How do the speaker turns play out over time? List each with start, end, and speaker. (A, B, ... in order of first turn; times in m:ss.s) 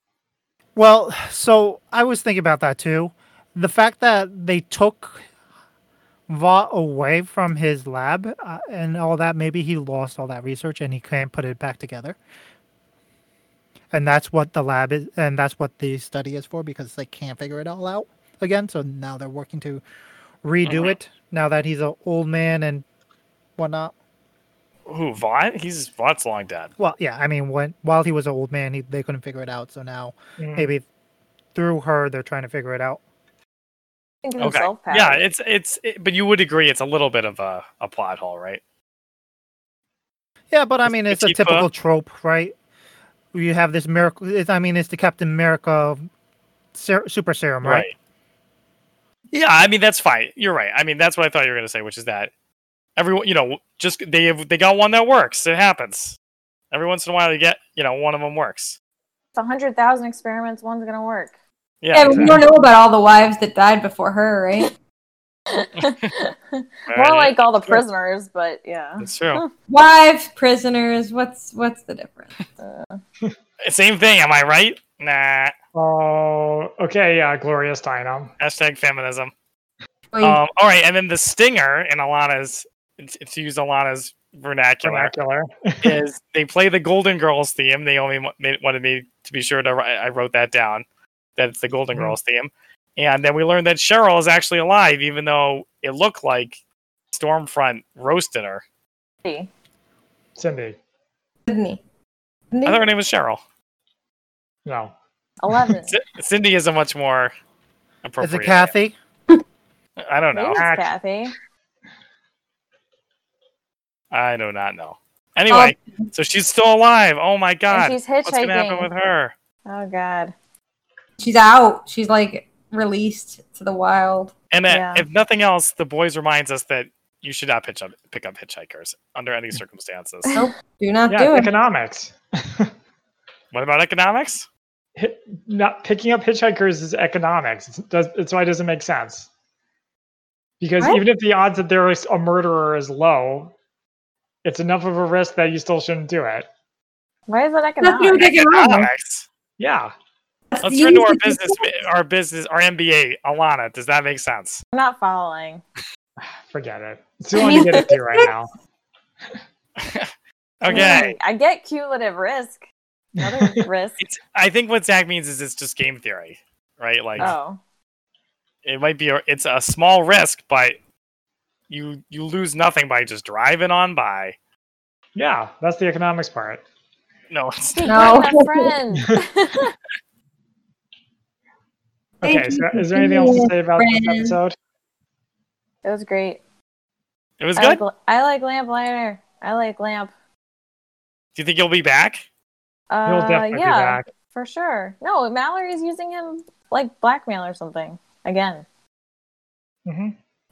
0:00.8-0:05.2 A
0:06.3-0:12.2 A
0:13.9-0:19.8 A
0:20.4-0:22.8 A
0:20.6-0:20.9 B
0:23.6-0:23.9 A
0:24.9-0:26.7 B
0:26.8-0:30.8 A
0:30.4-0:30.7 C
0:31.5-0:33.0 A
0:34.2-0:35.2 D
0:34.4-0:38.6 B
0:40.5-0:42.5 A
0:40.8-0:41.7 B
0:43.3-0:46.0 A
0:46.7-0:47.8 A
0:47.6-0:47.9 B
0:49.3-0:52.3 B
0:53.0-0:56.2 B
0:56.7-0:58.8 B
0:59.4-1:01.3 D
1:01.8-1:02.4 B
1:01.9-1:04.7 E
1:02.1-1:02.4 C
1:05.5-1:09.5 D
1:06.9-1:07.8 B
1:09.0-1:09.4 B
1:09.7-1:12.3 E
1:12.6-1:13.0 D
1:13.6-1:15.5 B
1:15.7-1:18.3 C
1:18.4-1:19.3 B
1:20.1-1:20.4 E
1:20.2-1:25.1 B
1:24.8-1:26.0 C
1:25.8-1:30.8 B
1:31.4-1:36.6 B
1:37.1-1:38.6 B
1:39.2-1:39.5 D
1:40.4-1:40.8 C
1:41.5-1:41.8 E
1:42.5-1:42.9 E
1:42.6-1:43.4 B
1:44.6-1:44.9 C
1:45.4-1:46.0 D
1:45.9-1:47.3 B
1:48.0-1:48.7 B
1:48.2-1:48.9 A
1:50.0-1:50.6 B
1:50.3-1:51.3 D
1:50.5-1:50.9 C
1:54.1-1:59.3 B
1:55.5-1:56.0 E
1:57.7-1:58.9 D
1:59.7-2:00.3 D
2:01.2-2:04.3 E
2:04.5-2:10.3 B
2:04.7-2:05.0 D
2:10.3-2:11.5 E
2:11.1-2:12.7 C
2:13.5-2:14.4 B
2:15.0-2:19.3 C
2:20.6-2:23.5 C
2:24.4-2:26.5 C
2:27.3-2:28.4 D
2:27.8-2:28.8 E
2:28.2-2:29.2 B
2:29.6-2:29.9 C
2:30.5-2:31.6 E
2:30.6-2:34.6 B
2:34.7-2:35.6 D
2:36.2-2:38.5 C
2:37.3-2:38.3 E
2:37.4-2:37.8 D
2:39.8-2:41.2 B
2:40.6-2:42.6 D
2:40.7-2:41.0 E
2:43.2-2:44.0 D
2:43.2-2:43.6 C
2:44.0-2:47.3 B
2:47.2-2:47.6 D
2:48.6-2:50.8 B
2:51.7-2:54.3 B
2:55.2-2:56.6 C
2:57.3-2:58.2 B
2:57.7-2:59.7 D
2:57.8-2:58.7 E
3:02.2-3:04.5 C
3:02.2-3:04.4 E
3:05.8-3:06.4 D
3:07.4-3:07.8 B
3:07.6-3:10.1 D
3:11.4-3:12.2 B
3:12.9-3:18.6 D
3:13.0-3:14.1 C
3:19.8-3:20.2 C